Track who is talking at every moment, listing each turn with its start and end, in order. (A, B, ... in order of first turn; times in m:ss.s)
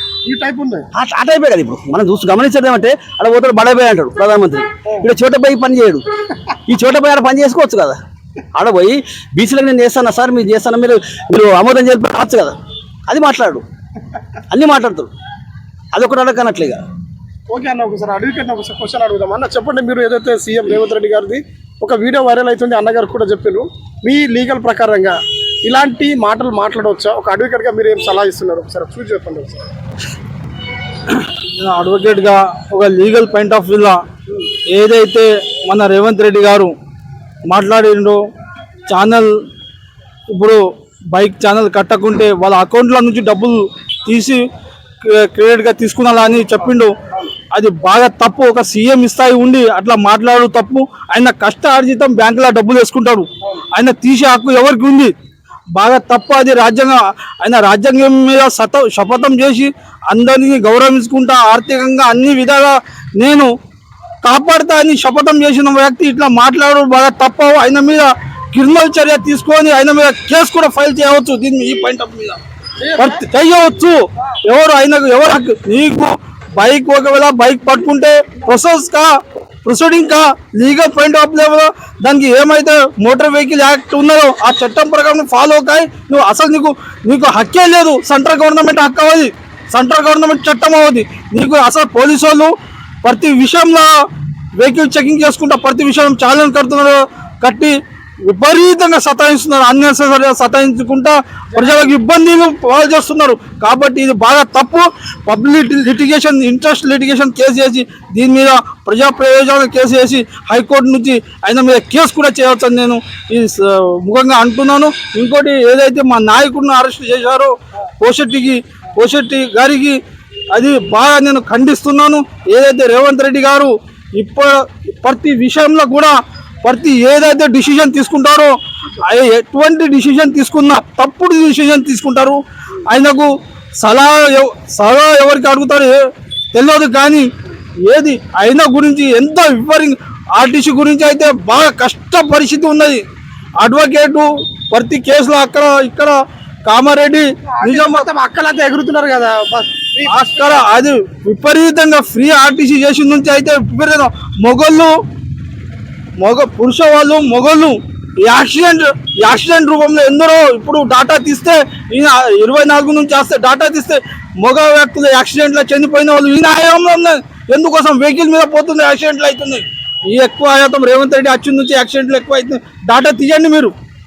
0:00.2-0:00.9 A
0:00.9-0:06.0 B
0:06.7-0:08.0 B
0:08.5-0:12.5 B
0:13.1-0:13.6 B
0:14.5-0:15.1 B
0:15.9-0:16.8 B
0:17.5-0:29.7 A
0:31.1-0:34.0 C
0:34.7-0:36.7 C
0:37.5-0:38.2 C
0:38.9-0:39.3 C
0:40.3-0:40.6 C
0:41.1-0:44.4 C
0:45.0-0:46.9 C
0:47.5-0:55.1 C
0:55.7-1:03.5 C
1:04.2-1:12.4 C
1:12.8-1:13.2 A
1:13.0-1:19.1 C
1:19.6-1:33.9 C
1:34.6-2:00.0 C
2:00.5-2:16.0 C
2:16.5-2:17.3 C
2:17.9-2:23.0 C
2:23.6-2:26.1 C
2:26.6-2:28.0 C
2:27.6-2:30.2 A
2:30.1-2:34.9 C
2:36.2-2:53.7 C